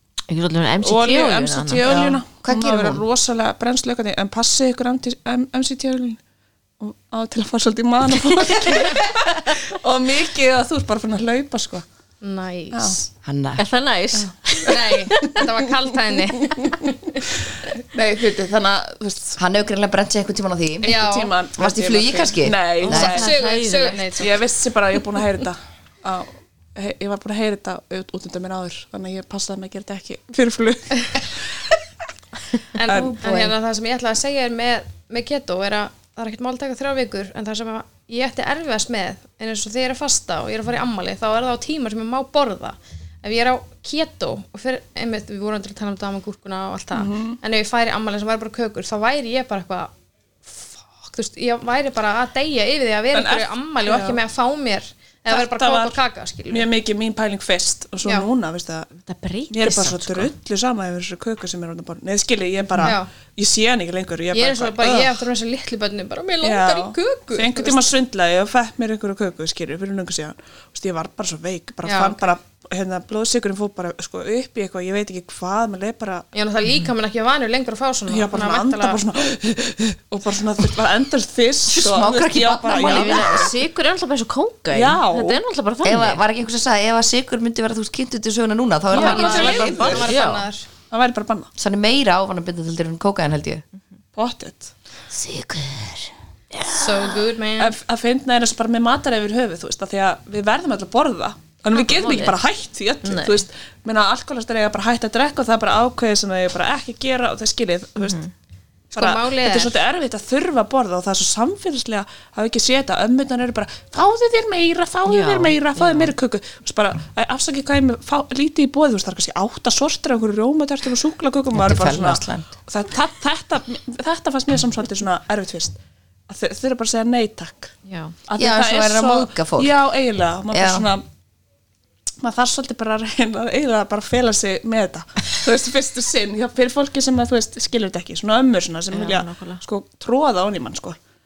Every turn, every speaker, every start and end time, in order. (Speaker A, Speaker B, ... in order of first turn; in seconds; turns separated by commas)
Speaker A: 0.3-2.1, Speaker B: 0.8-6.2, Speaker C: 1.8-3.0, Speaker B: 6.8-11.8, Speaker D: 12.2-13.0, Speaker B: 12.7-13.0, Speaker C: 13.2-13.6, Speaker A: 13.6-15.4, Speaker B: 14.1-14.9, Speaker D: 14.6-16.9, Speaker B: 16.3-16.8, Speaker B: 17.4-19.4, Speaker C: 19.4-21.0, Speaker D: 20.8-21.3, Speaker B: 20.8-23.3, Speaker C: 21.6-23.2, Speaker A: 22.8-24.3, Speaker D: 22.9-24.4, Speaker B: 24.2-31.8, Speaker D: 32.7-49.9, Speaker B: 32.9-33.1, Speaker C: 32.9-33.5, Speaker B: 46.9-47.4, Speaker D: 50.5-56.7, Speaker B: 53.1-54.2, Speaker B: 55.3-58.9, Speaker D: 58.0-58.3, Speaker A: 59.0-60.3, Speaker B: 59.5-65.2, Speaker D: 62.8-63.1, Speaker D: 64.3-67.9, Speaker B: 66.4-76.3, Speaker D: 71.8-72.2, Speaker D: 76.3-79.0, Speaker B: 78.1-83.5, Speaker C: 81.7-83.5, Speaker A: 82.7-86.2, Speaker B: 84.7-85.4, Speaker C: 85.8-90.1, Speaker B: 88.9-90.2, Speaker A: 88.9-90.5, Speaker D: 89.0-90.7, Speaker B: 90.9-91.5, Speaker C: 91.6-93.6, Speaker B: 94.1-94.7, Speaker A: 95.1-97.1, Speaker D: 96.7-97.7, Speaker B: 97.6-108.2, Speaker A: 101.7-102.3, Speaker A: 103.0-103.4, Speaker A: 108.0-108.3, Speaker D: 108.9-109.8, Speaker B: 108.9-125.8, Speaker A: 115.1-116.1, Speaker C: 121.5-122.5, Speaker B: 126.3-127.7, Speaker A: 127.9-128.2, Speaker B: 128.2-131.0, Speaker C: 128.3-129.7, Speaker C: 130.5-130.9, Speaker B: 132.2-141.0, Speaker A: 138.9-139.6